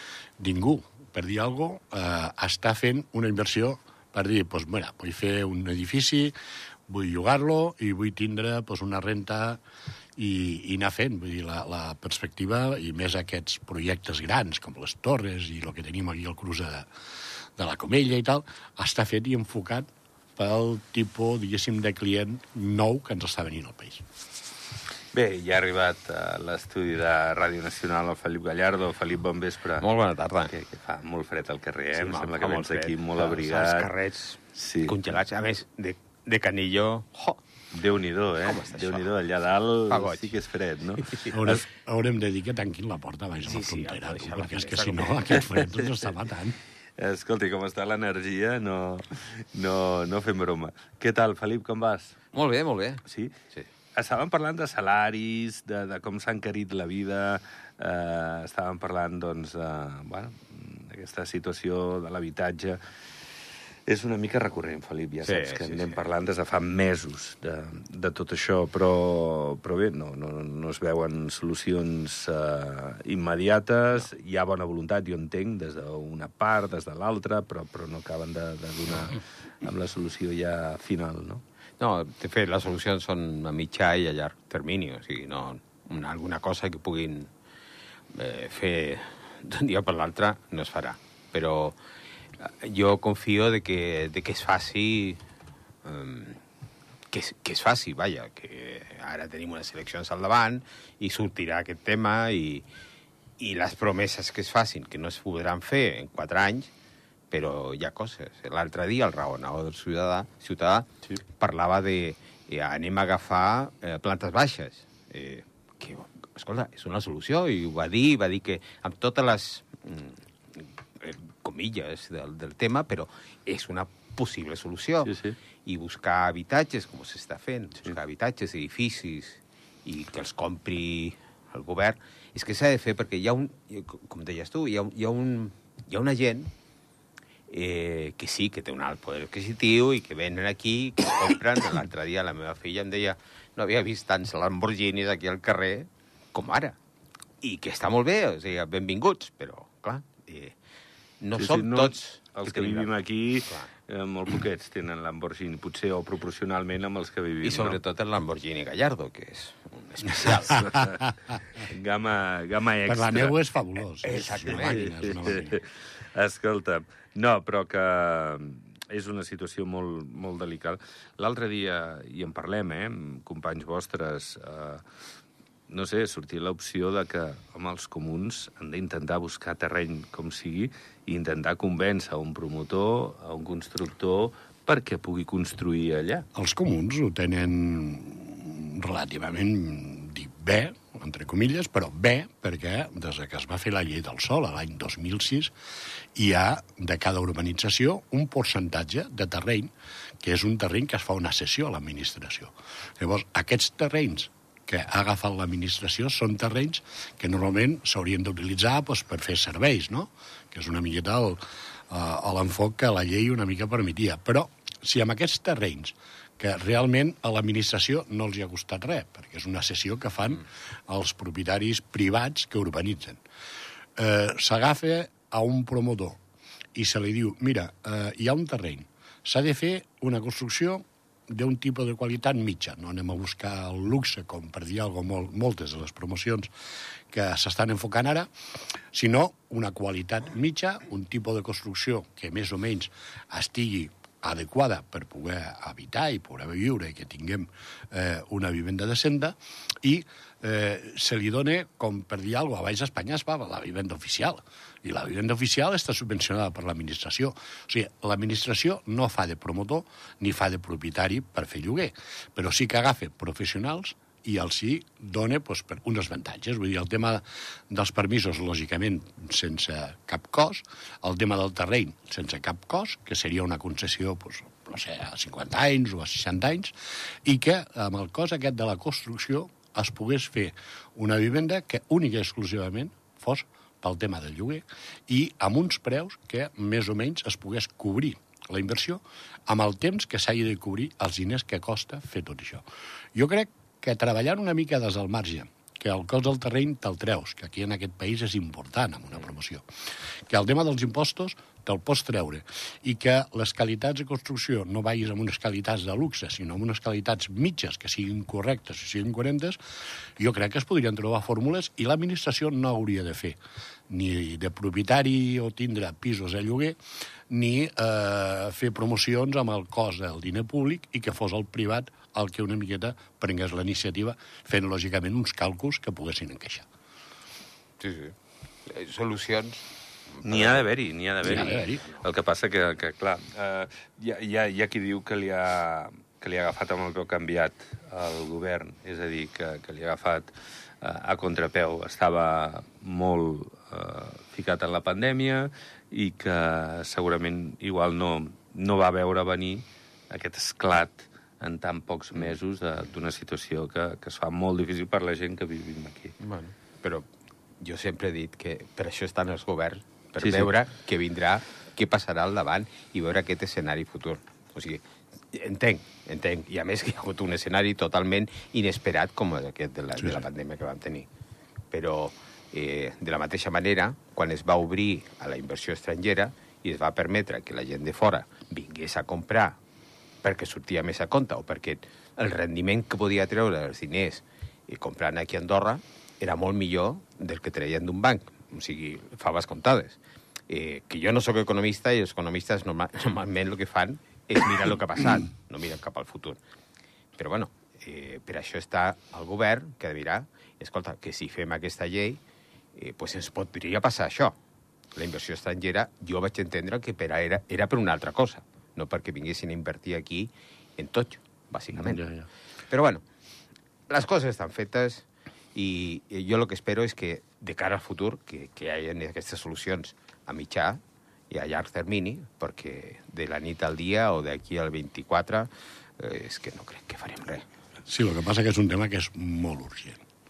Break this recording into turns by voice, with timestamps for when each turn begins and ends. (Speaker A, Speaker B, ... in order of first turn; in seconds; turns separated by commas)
Speaker A: 0.4-6.3, Speaker A: 6.9-9.6, Speaker A: 10.2-16.9, Speaker A: 17.6-24.0, Speaker B: 25.1-29.9, Speaker C: 29.8-30.5, Speaker B: 30.4-33.9, Speaker C: 31.9-37.4, Speaker B: 34.5-35.0, Speaker B: 37.7-41.6, Speaker C: 38.4-39.1, Speaker C: 39.9-40.3, Speaker C: 41.0-41.3, Speaker A: 41.3-46.6, Speaker C: 43.4-45.5, Speaker B: 47.0-52.2, Speaker C: 52.3-53.7, Speaker B: 53.0-53.3, Speaker B: 53.9-62.8, Speaker B: 63.9-81.4, Speaker C: 65.2-66.0, Speaker C: 81.8-87.3, Speaker C: 88.1-91.8, Speaker C: 92.4-95.2, Speaker C: 95.8-96.4, Speaker C: 97.1-102.7, Speaker C: 103.4-106.7, Speaker C: 107.3-120.2, Speaker C: 121.0-136.5, Speaker B: 125.0-125.3, Speaker C: 137.5-146.8, Speaker C: 147.4-150.6, Speaker C: 151.2-152.9, Speaker B: 151.3-157.8, Speaker C: 157.4-161.0, Speaker B: 160.5-161.0, Speaker B: 161.5-163.4, Speaker A: 162.8-165.6, Speaker C: 164.0-165.1, Speaker B: 164.6-174.8, Speaker B: 175.7-186.2, Speaker A: 186.3-195.5, Speaker A: 196.1-223.2, Speaker A: 224.0-226.2, Speaker A: 226.7-236.5, Speaker A: 237.1-238.3, Speaker A: 238.9-299.6, Speaker A: 300.3-309.6, Speaker A: 310.2-313.4, Speaker A: 313.9-326.6, Speaker C: 327.8-329.6, Speaker C: 330.1-330.6, Speaker B: 330.2-356.1, Speaker A: 331.2-331.8, Speaker C: 356.2-357.1, Speaker C: 357.6-371.1, Speaker B: 360.2-360.5, Speaker C: 371.7-379.6, Speaker C: 380.2-396.4, Speaker C: 397.2-402.2, Speaker C: 402.7-404.4, Speaker C: 404.9-412.0, Speaker B: 411.8-412.3, Speaker C: 412.7-413.0, Speaker C: 413.9-427.4, Speaker A: 427.9-430.0